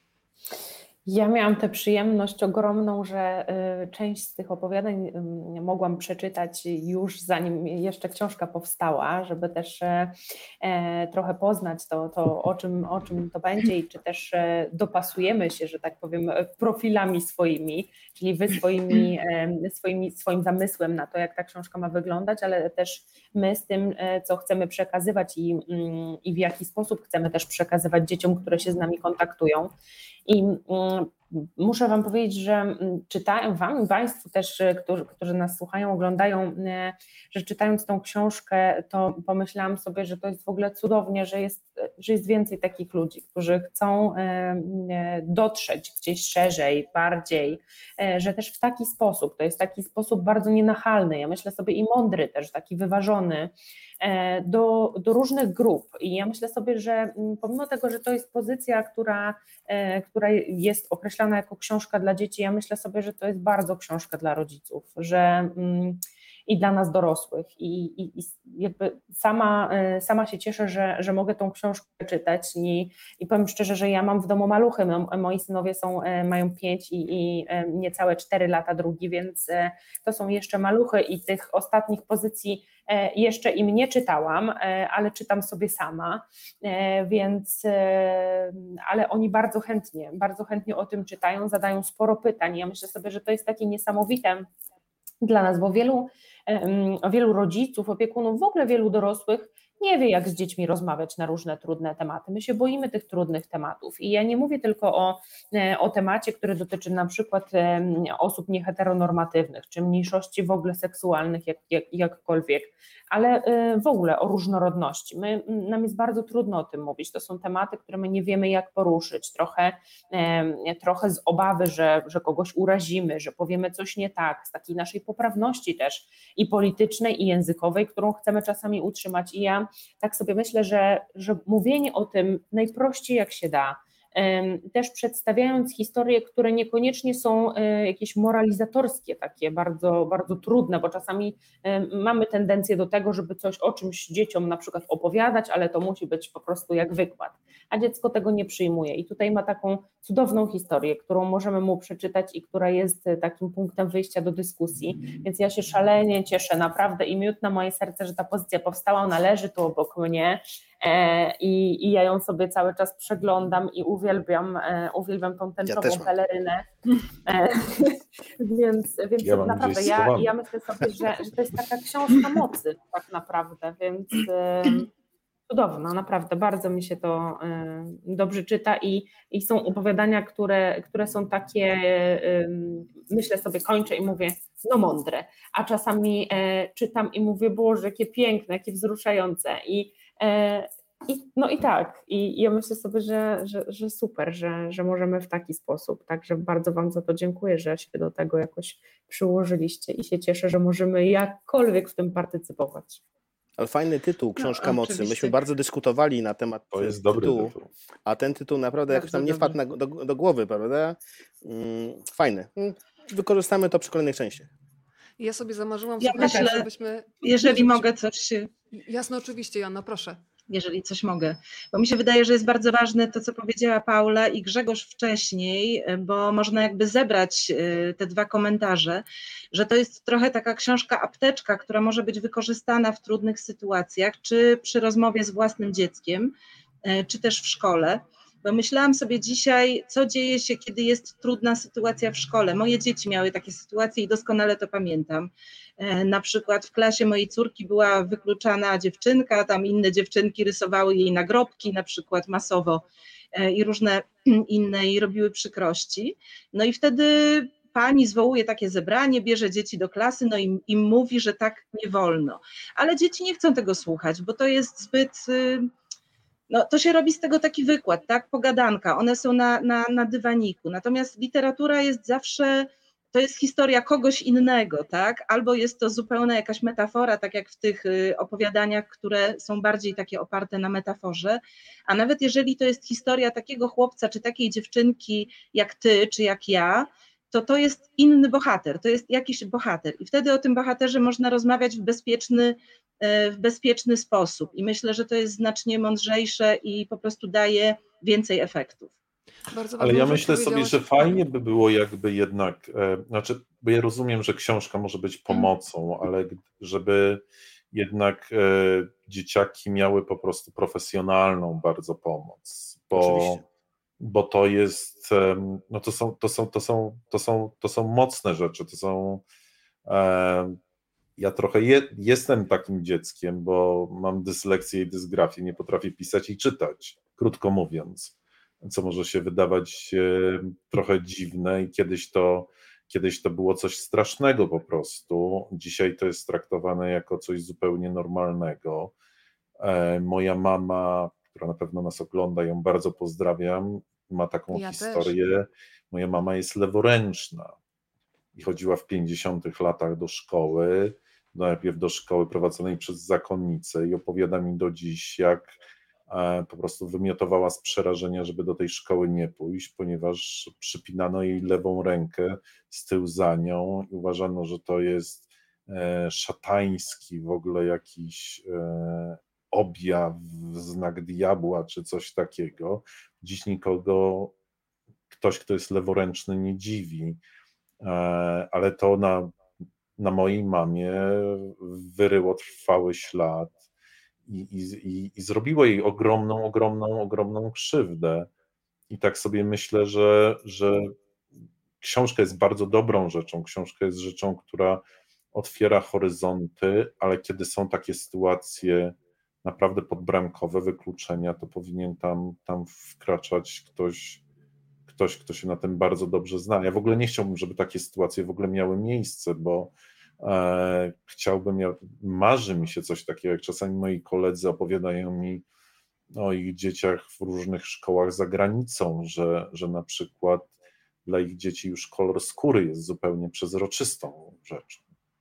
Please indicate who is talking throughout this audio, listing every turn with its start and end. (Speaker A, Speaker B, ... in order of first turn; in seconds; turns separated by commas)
Speaker A: 1.1-29.7, Speaker A: 30.2-94.5, Speaker A: 95.2-166.7, Speaker B: 165.6-166.1, Speaker A: 167.2-174.9, Speaker C: 169.2-170.3, Speaker A: 175.5-203.0, Speaker B: 203.6-207.5, Speaker D: 204.4-205.3, Speaker C: 206.7-207.7, Speaker B: 208.1-214.5, Speaker D: 208.9-209.6, Speaker E: 215.2-217.9, Speaker D: 216.0-216.7, Speaker A: 216.2-216.5, Speaker D: 217.2-218.5, Speaker E: 218.7-220.2, Speaker D: 220.5-236.3, Speaker D: 236.8-265.7, Speaker D: 266.5-298.9, Speaker E: 299.5-301.2, Speaker C: 299.8-313.4, Speaker B: 312.9-313.4, Speaker C: 314.0-319.2, Speaker C: 319.9-320.6, Speaker C: 321.2-338.9, Speaker C: 339.6-347.5, Speaker E: 344.5-345.1, Speaker C: 348.3-355.5, Speaker C: 356.1-374.3, Speaker C: 375.1-377.2, Speaker C: 377.8-379.4, Speaker C: 380.0-383.6, Speaker C: 384.3-388.3, Speaker C: 388.9-390.9, Speaker C: 391.8-404.2, Speaker C: 404.9-415.4, Speaker C: 416.1-420.5, Speaker C: 421.0-424.8